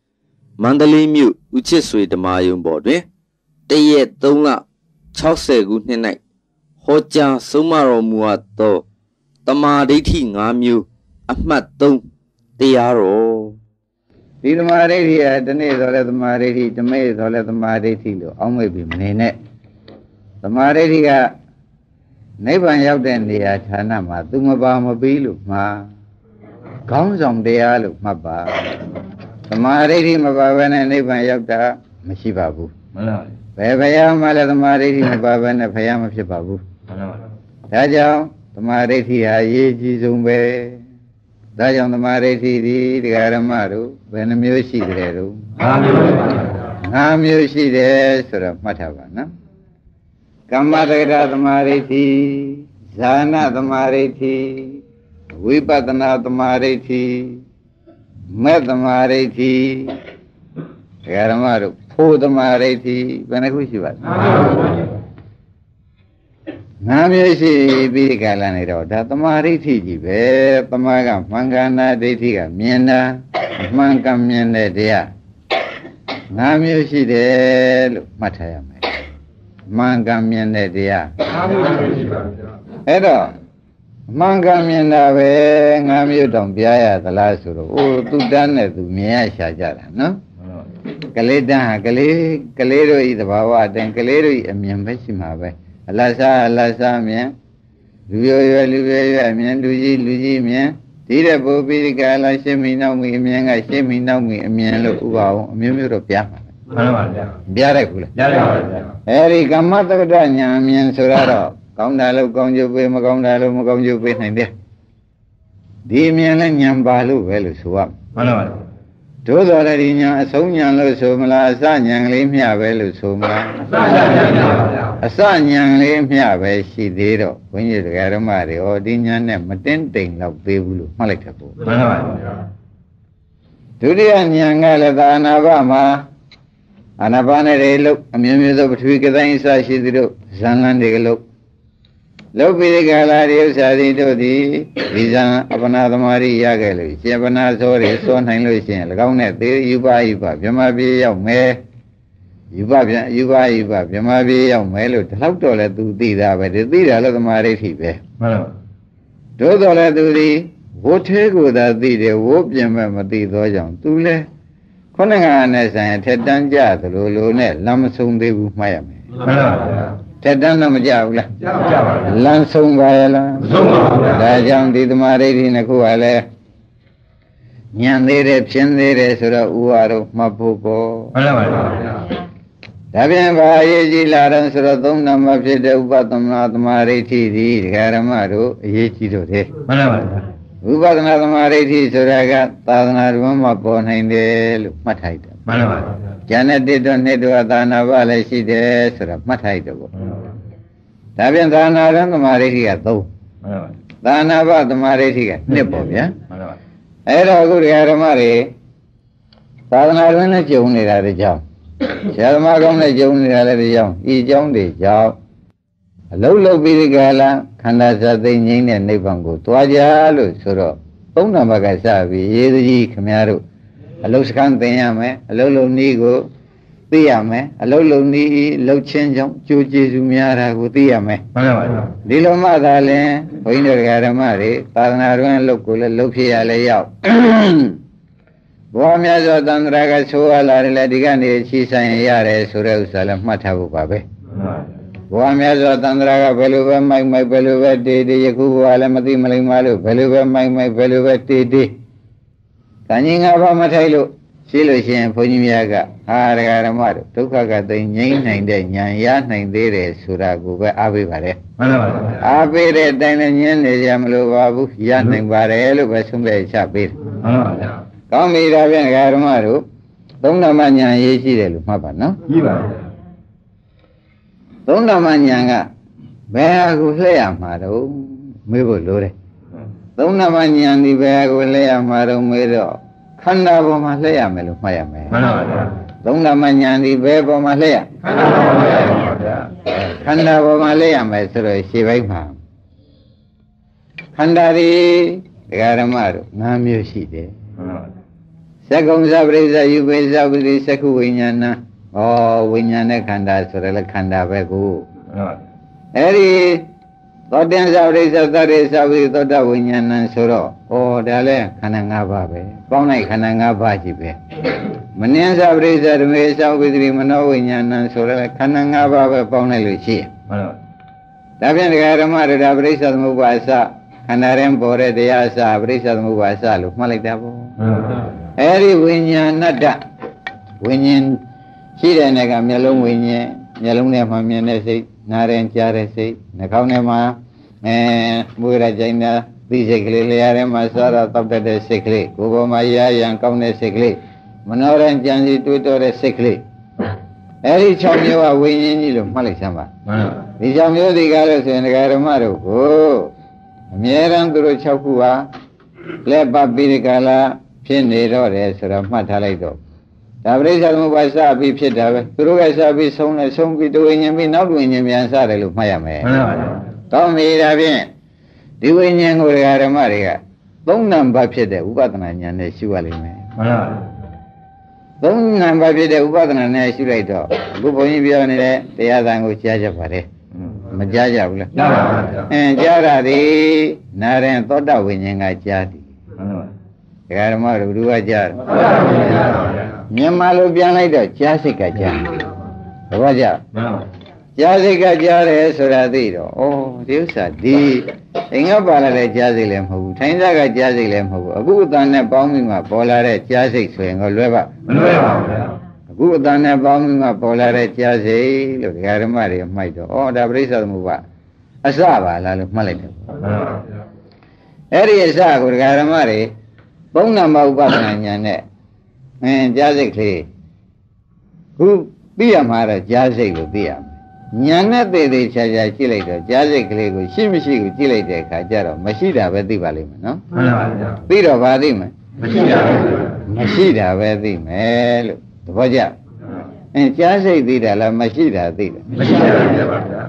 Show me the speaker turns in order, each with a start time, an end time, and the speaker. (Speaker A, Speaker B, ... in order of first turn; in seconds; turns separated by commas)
Speaker A: 0.6-3.1, Speaker A: 3.7-4.6, Speaker A: 5.1-6.2, Speaker A: 6.8-8.8, Speaker A: 9.4-12.0, Speaker A: 12.6-13.6, Speaker B: 14.4-19.4, Speaker B: 20.4-21.3, Speaker B: 22.4-25.9, Speaker B: 26.9-28.7, Speaker B: 29.5-32.7, Speaker C: 33.0-33.3, Speaker B: 33.6-36.6, Speaker C: 36.9-37.2, Speaker B: 37.7-40.8, Speaker B: 41.6-45.5, Speaker C: 45.6-46.2, Speaker B: 46.8-49.3, Speaker B: 50.5-54.8, Speaker B: 55.4-57.4, Speaker B: 58.3-60.0, Speaker B: 61.1-64.0, Speaker B: 66.8-75.1, Speaker B: 76.3-78.8, Speaker B: 79.7-81.1, Speaker B: 82.9-83.3, Speaker B: 84.1-90.2, Speaker B: 91.2-97.3, Speaker B: 98.1-106.5, Speaker C: 106.7-107.3, Speaker B: 107.5-108.1, Speaker C: 108.2-108.9, Speaker B: 109.1-114.5, Speaker B: 115.9-118.0, Speaker C: 118.2-118.6, Speaker B: 119.2-123.7, Speaker B: 125.0-131.6, Speaker C: 131.6-132.2, Speaker B: 133.8-136.1, Speaker B: 137.0-141.2, Speaker B: 142.4-151.6, Speaker B: 152.5-158.0, Speaker C: 158.2-158.5, Speaker B: 159.4-164.2, Speaker B: 164.9-169.1, Speaker C: 169.2-169.8, Speaker B: 170.2-171.3, Speaker C: 171.8-172.0, Speaker B: 172.1-176.2, Speaker B: 177.8-181.2, Speaker C: 181.2-181.9, Speaker B: 182.9-189.6, Speaker C: 189.7-190.3, Speaker B: 190.6-195.4, Speaker C: 195.5-195.9, Speaker B: 196.3-199.9, Speaker B: 201.2-203.1, Speaker C: 203.4-203.7, Speaker B: 204.0-206.1, Speaker B: 207.1-208.5, Speaker B: 209.7-211.4, Speaker B: 211.9-215.2, Speaker B: 216.1-223.4, Speaker B: 224.0-226.3, Speaker B: 226.9-231.2, Speaker C: 231.3-231.9, Speaker B: 232.1-237.8, Speaker B: 238.7-244.1, Speaker C: 244.4-244.6, Speaker B: 245.1-251.7, Speaker B: 252.9-261.4, Speaker C: 261.6-262.2, Speaker B: 262.2-267.0, Speaker C: 267.2-267.8, Speaker B: 268.1-269.6, Speaker B: 270.2-272.2, Speaker C: 272.3-272.8, Speaker B: 274.7-275.7, Speaker B: 276.3-279.1, Speaker B: 280.0-285.2, Speaker C: 285.1-285.7, Speaker B: 286.0-287.9, Speaker B: 289.7-292.4, Speaker B: 294.2-297.3, Speaker C: 297.6-297.9, Speaker B: 298.7-304.9, Speaker C: 305.1-305.4, Speaker B: 306.0-306.7, Speaker B: 307.3-314.2, Speaker B: 315.0-320.1, Speaker C: 320.3-320.6, Speaker B: 321.4-327.5, Speaker C: 327.6-328.0, Speaker B: 328.4-329.8, Speaker B: 330.6-331.2, Speaker B: 331.8-346.4, Speaker B: 347.4-349.7, Speaker C: 349.9-350.2, Speaker B: 350.4-353.1, Speaker B: 353.7-355.3, Speaker B: 356.1-359.6, Speaker B: 360.2-366.2, Speaker C: 366.0-366.5, Speaker B: 366.9-367.9, Speaker B: 368.6-373.2, Speaker C: 373.4-373.9, Speaker B: 375.0-380.1, Speaker B: 380.7-381.6, Speaker C: 381.6-382.1, Speaker B: 382.3-385.9, Speaker C: 386.2-386.5, Speaker B: 387.1-388.5, Speaker B: 389.9-392.2, Speaker B: 392.9-393.4, Speaker C: 393.5-393.9, Speaker B: 394.4-404.6, Speaker C: 404.7-405.5, Speaker B: 405.9-411.0, Speaker B: 411.6-413.2, Speaker C: 413.3-413.6, Speaker B: 414.7-416.3, Speaker B: 416.9-418.4, Speaker B: 419.2-420.3, Speaker B: 421.6-430.2, Speaker C: 430.3-430.9, Speaker B: 431.1-431.9, Speaker C: 432.2-432.9, Speaker B: 433.3-435.9, Speaker B: 436.7-439.2, Speaker C: 439.0-439.8